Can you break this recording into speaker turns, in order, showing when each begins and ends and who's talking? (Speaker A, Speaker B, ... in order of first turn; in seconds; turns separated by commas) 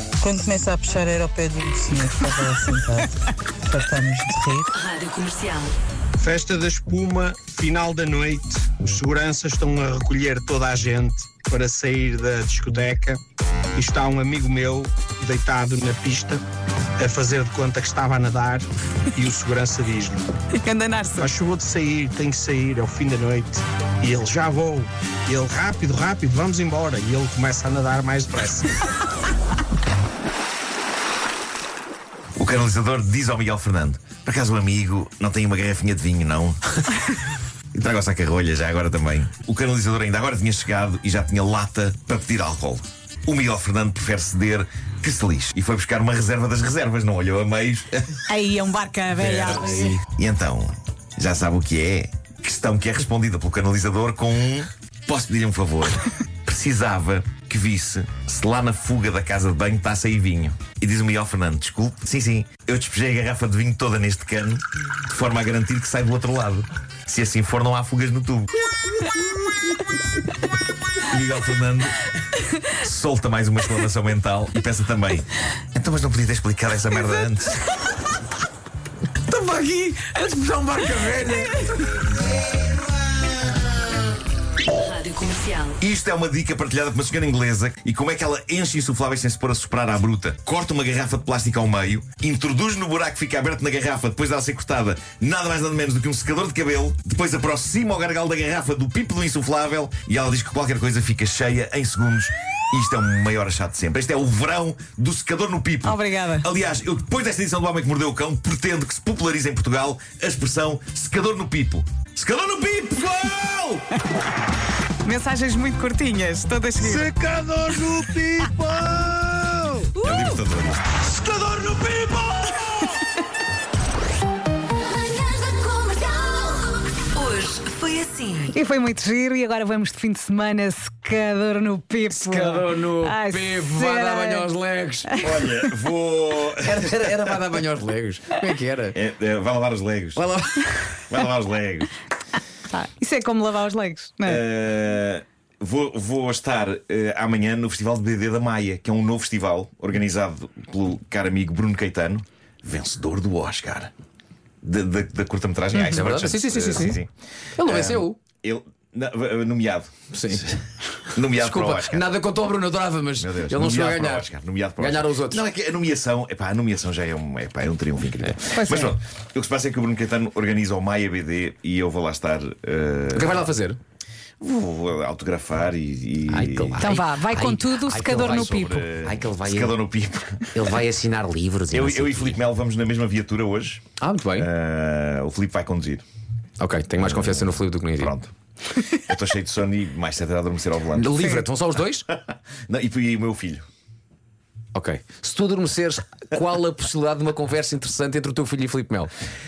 Speaker A: 0.2-4.7, Speaker B: 4.7-5.8, Speaker C: 6.2-13.2, Speaker C: 13.7-16.4, Speaker C: 17.0-20.3, Speaker D: 20.5-21.3, Speaker C: 21.2-28.8, Speaker E: 32.4-36.8, Speaker E: 37.7-48.2, Speaker D: 48.3-50.0, Speaker F: 49.2-50.0, Speaker E: 49.7-68.7, Speaker E: 71.1-72.1, Speaker E: 72.7-77.6, Speaker F: 79.3-81.7, Speaker B: 84.8-85.8, Speaker E: 85.8-113.8, Speaker D: 105.8-106.5, Speaker D: 115.0-117.1, Speaker E: 116.8-122.9, Speaker B: 127.1-128.4, Speaker D: 128.4-134.5, Speaker F: 132.1-135.4, Speaker D: 135.1-135.5, Speaker E: 135.2-137.1, Speaker F: 136.6-139.0, Speaker E: 138.9-140.2, Speaker F: 140.2-140.8, Speaker E: 141.1-141.9, Speaker D: 142.7-144.4, Speaker E: 144.2-153.9, Speaker E: 154.6-157.1, Speaker F: 155.7-157.0, Speaker F: 157.6-158.2, Speaker E: 157.6-160.5, Speaker F: 160.1-160.5, Speaker E: 161.1-162.1, Speaker F: 161.2-165.4, Speaker E: 163.2-173.6, Speaker D: 168.5-168.9, Speaker F: 173.1-173.8, Speaker E: 174.4-176.9, Speaker F: 176.3-179.8, Speaker D: 176.8-178.8, Speaker E: 178.1-180.5, Speaker F: 180.5-182.3, Speaker E: 181.7-186.0, Speaker F: 184.0-184.5, Speaker F: 186.6-188.2, Speaker E: 187.0-191.2, Speaker F: 190.9-192.1, Speaker E: 192.1-193.7, Speaker F: 194.7-199.1